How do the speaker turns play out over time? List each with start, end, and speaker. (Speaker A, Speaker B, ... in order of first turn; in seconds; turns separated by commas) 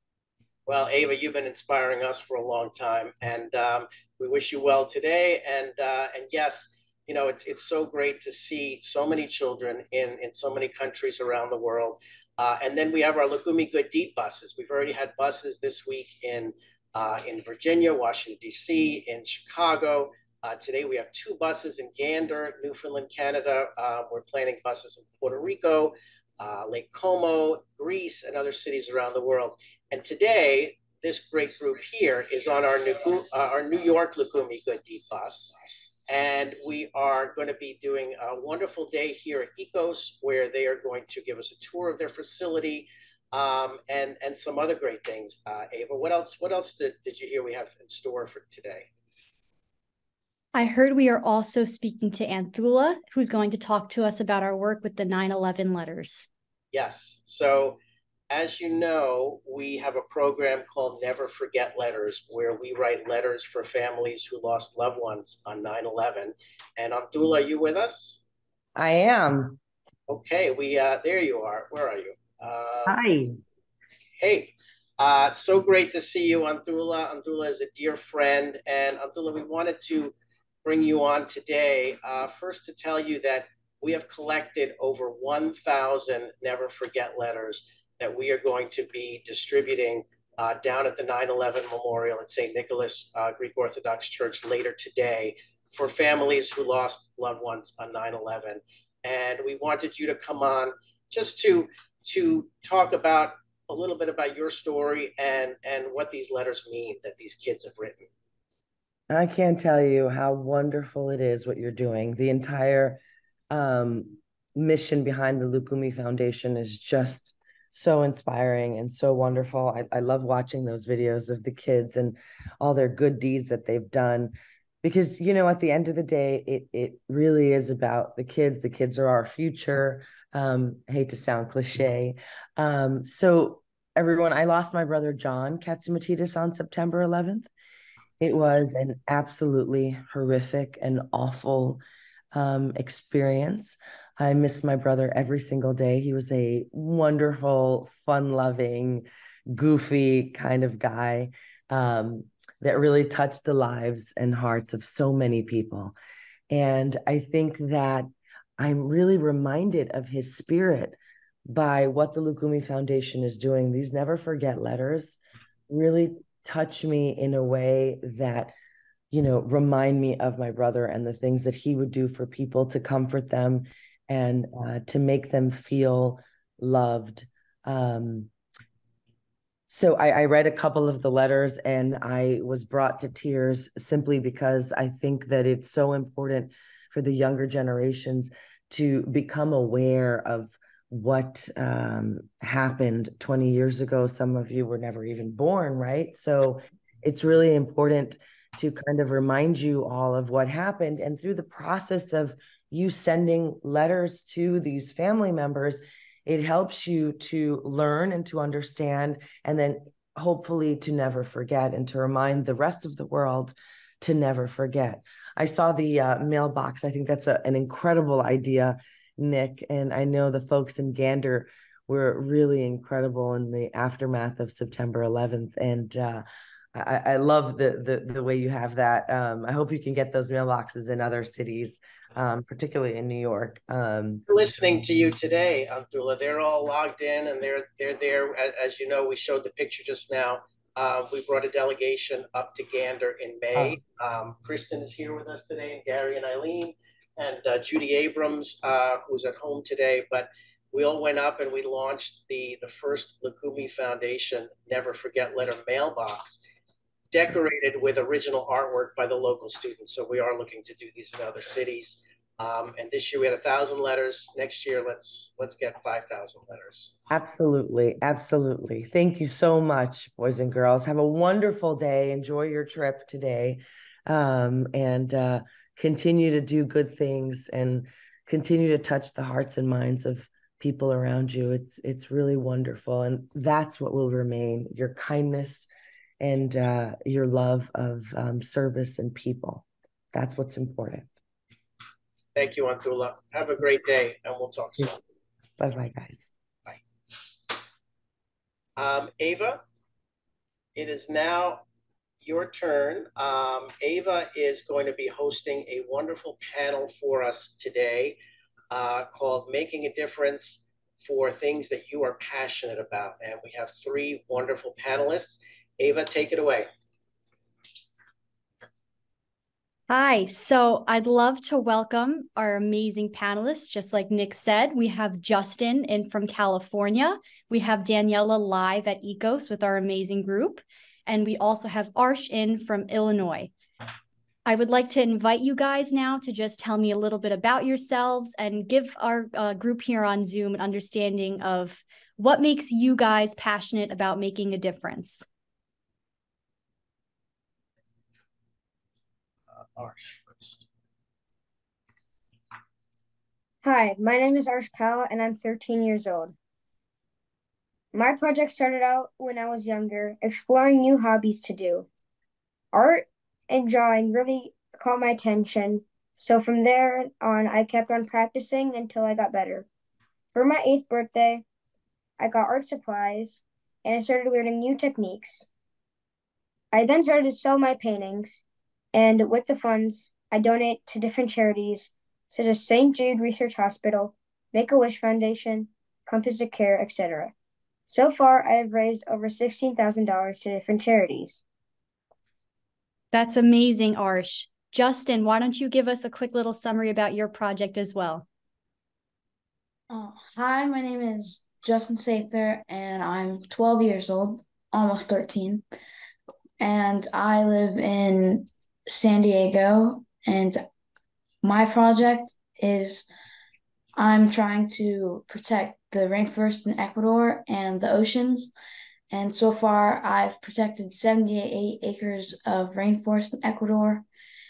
Speaker A: 0.7-35.5, Speaker A: 36.1-48.9, Speaker B: 50.5-56.3, Speaker A: 56.7-57.8, Speaker A: 58.3-68.2, Speaker C: 68.8-69.6, Speaker A: 70.1-73.0, Speaker C: 72.8-73.4, Speaker A: 74.2-80.1, Speaker A: 80.6-108.1, Speaker C: 109.1-113.0, Speaker C: 113.5-137.5, Speaker C: 138.2-141.8, Speaker C: 142.3-155.9, Speaker C: 156.5-160.9, Speaker C: 161.5-165.2, Speaker C: 165.7-168.5, Speaker C: 169.1-178.3, Speaker C: 179.7-234.2, Speaker A: 234.3-256.4, Speaker A: 257.1-266.9, Speaker C: 267.1-285.7, Speaker C: 286.2-291.1, Speaker A: 292.4-295.0, Speaker C: 295.6-296.3, Speaker A: 298.8-299.6, Speaker A: 300.7-301.6, Speaker A: 302.2-308.2, Speaker A: 308.7-316.7, Speaker B: 319.9-333.5, Speaker B: 334.4-345.2, Speaker A: 349.5-350.6, Speaker D: 353.6-356.3, Speaker D: 357.9-361.9, Speaker D: 362.7-369.6, Speaker D: 370.3-371.4, Speaker D: 372.2-375.4, Speaker D: 376.7-378.4, Speaker D: 378.9-387.3, Speaker D: 387.9-391.4, Speaker B: 393.1-398.2, Speaker E: 399.9-405.6, Speaker E: 406.6-410.6, Speaker E: 411.4-413.1, Speaker E: 413.9-418.5, Speaker E: 419.1-424.1